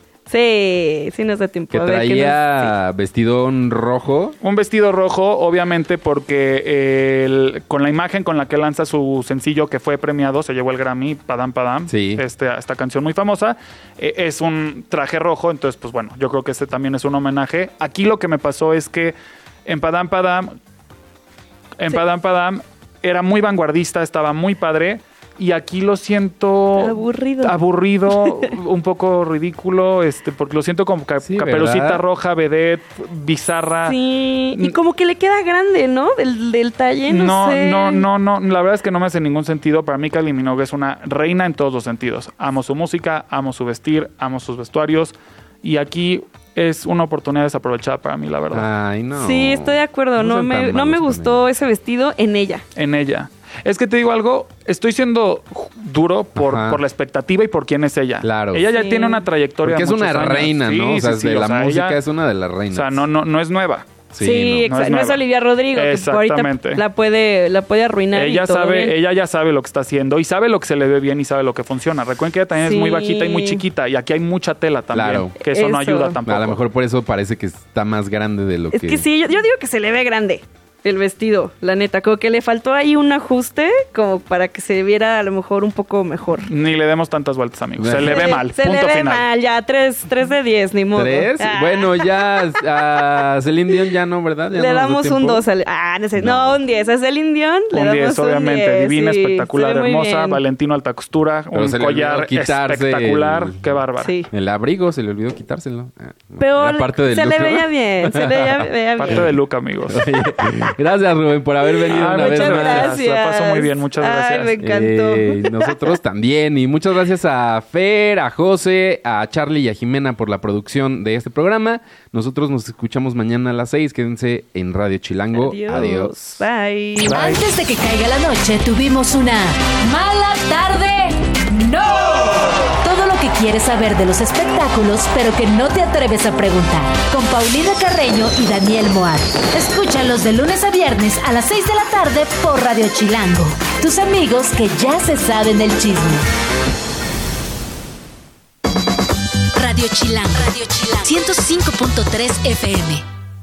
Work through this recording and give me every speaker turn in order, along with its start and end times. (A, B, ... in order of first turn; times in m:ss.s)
0:00.3-0:02.7 A
0:01.7-0:04.4 B
0:04.4-0:19.1 C
0:11.9-0:12.2 B
0:19.6-0:20.5 C
0:21.8-0:34.0 C
0:26.7-0:28.5 A
0:31.2-0:32.0 B
0:33.8-0:38.0 A
0:37.1-0:48.7 C
0:48.5-0:51.5 B
0:49.1-0:52.6 A
0:52.8-1:02.0 C
0:56.4-0:56.8 B
0:58.2-0:58.7 B
0:58.7-0:59.2 A
0:59.6-1:03.0 B
1:02.7-1:04.0 C
1:04.1-1:04.7 B
1:04.2-1:09.0 A
1:04.6-1:06.8 C
1:08.1-1:16.6 C
1:12.6-1:13.6 A
1:14.9-1:15.3 B
1:15.4-1:16.2 A
1:16.2-1:19.0 B
1:18.7-1:26.5 A
1:26.5-1:29.2 C
1:27.8-1:28.3 B
1:27.9-1:32.4 A
1:30.9-1:35.4 B
1:34.5-1:40.4 A
1:36.2-1:36.6 B
1:37.7-1:44.2 C
1:41.5-1:43.6 B
1:44.0-1:44.3 A
1:44.3-1:49.3 B
1:46.4-1:49.3 A
1:49.0-1:50.0 C
1:49.9-1:53.0 B
1:51.6-1:55.8 A
1:51.9-1:54.5 C
1:54.6-2:06.2 B
2:05.3-2:07.4 A
2:07.0-2:26.2 D
2:29.5-2:33.0 D